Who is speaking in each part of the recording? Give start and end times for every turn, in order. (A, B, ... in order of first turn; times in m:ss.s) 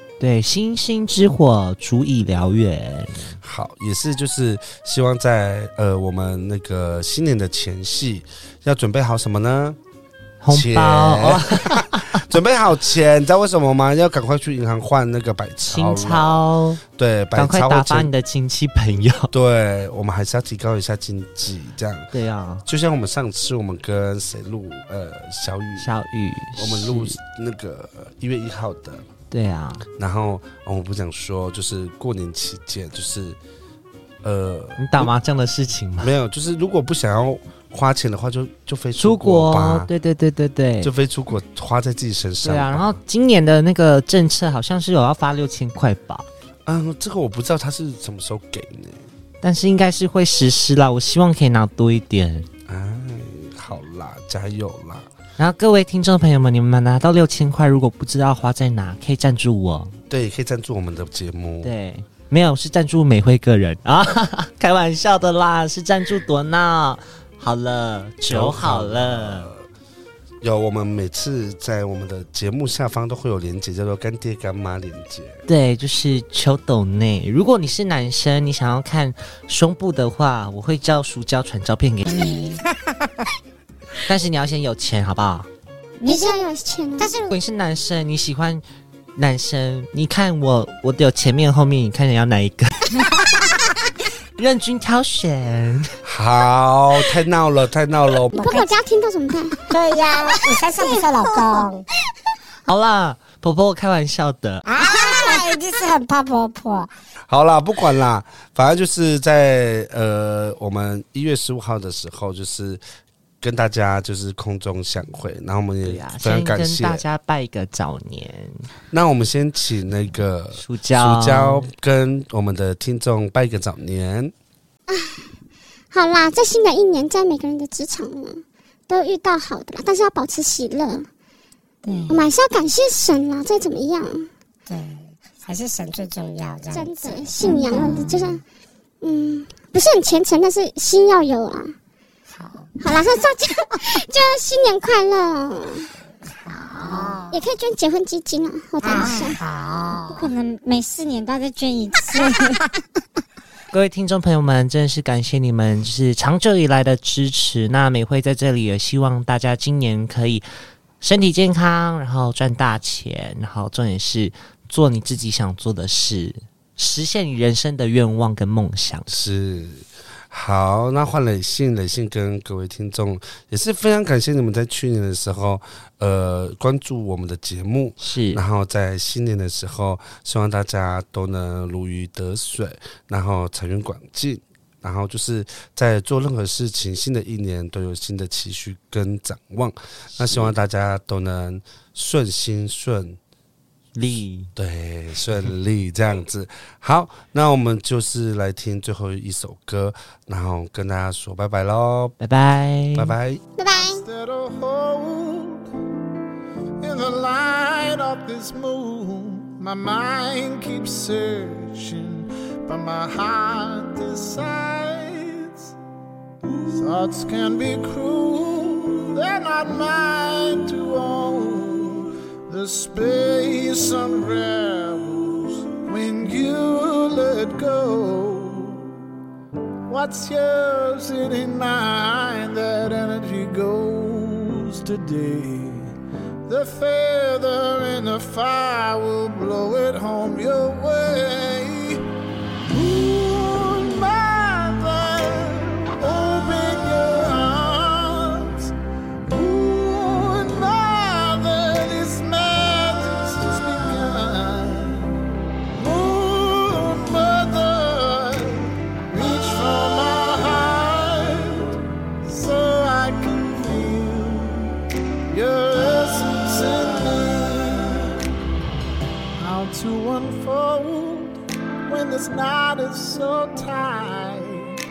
0:00.2-0:03.4 A
0:03.4-0:09.8 B
0:10.4-0:12.2 A
0:10.5-0:18.1 B
0:15.6-0:16.8 A
0:17.3-0:19.3 A
0:19.3-0:22.1 B
0:22.1-0:22.6 A
0:22.6-0:25.9 B
0:25.8-0:27.2 A
0:26.6-0:29.1 B
0:29.3-0:29.8 A
0:30.0-0:33.4 B
0:34.2-0:35.1 B
0:34.8-0:36.1 A
0:36.0-0:39.9 B
0:39.0-0:40.9 A
0:40.8-0:43.0 B
0:42.4-0:46.3 A
0:46.6-0:49.1 B
0:49.4-0:52.5 A
0:52.7-0:55.1 B
0:55.4-0:59.9 A
1:00.1-1:01.7 B
1:01.6-1:09.5 A
1:08.3-1:09.6 B
1:10.4-1:15.4 B
1:15.5-1:22.4 A
1:22.2-1:22.9 C
1:24.0-1:25.5 A
1:26.0-1:26.4 D
1:26.0-1:27.1 E
1:27.0-1:27.4 D
1:27.3-1:28.6 A
1:29.1-1:32.9 A
1:34.4-1:36.0 A
1:36.0-1:38.3 B
1:38.3-1:39.7 E
1:38.3-1:38.7 C
1:39.7-1:41.8 C
1:42.6-1:44.6 A
1:44.6-1:46.9 C
1:47.3-1:52.8 B
1:53.4-1:57.0 B
1:55.8-1:58.6 A
1:58.9-2:04.3 B
2:00.6-2:01.7 A
2:04.9-2:05.3 E
2:05.9-2:11.1 E
2:11.8-2:12.3 D
2:12.1-2:14.3 E
2:14.6-2:18.4 C
2:16.7-2:18.4 E
2:17.4-2:18.1 D
2:19.0-2:21.8 E
2:22.3-2:22.7 C
2:22.8-2:25.9 E
2:26.4-2:27.4 C
2:27.3-2:29.4 E
2:28.8-2:30.3 C
2:30.1-2:32.7 D
2:33.7-2:40.5 A
2:41.0-2:49.1 A
2:49.1-3:13.2 B
2:58.0-2:58.4 A
3:10.1-3:10.5 A
3:14.0-3:14.5 A
3:14.6-3:22.2 B
3:22.2-3:23.1 A
3:22.9-3:23.4 B
3:23.6-3:24.0 E
3:23.7-3:25.6 F
3:26.8-3:35.7 F
3:36.7-3:48.9 F
3:49.9-3:56.0 F
3:56.5-4:02.0 F
4:02.7-4:08.7 F
4:09.3-4:15.2 F
4:15.8-4:28.2 F
4:29.4-4:34.8 F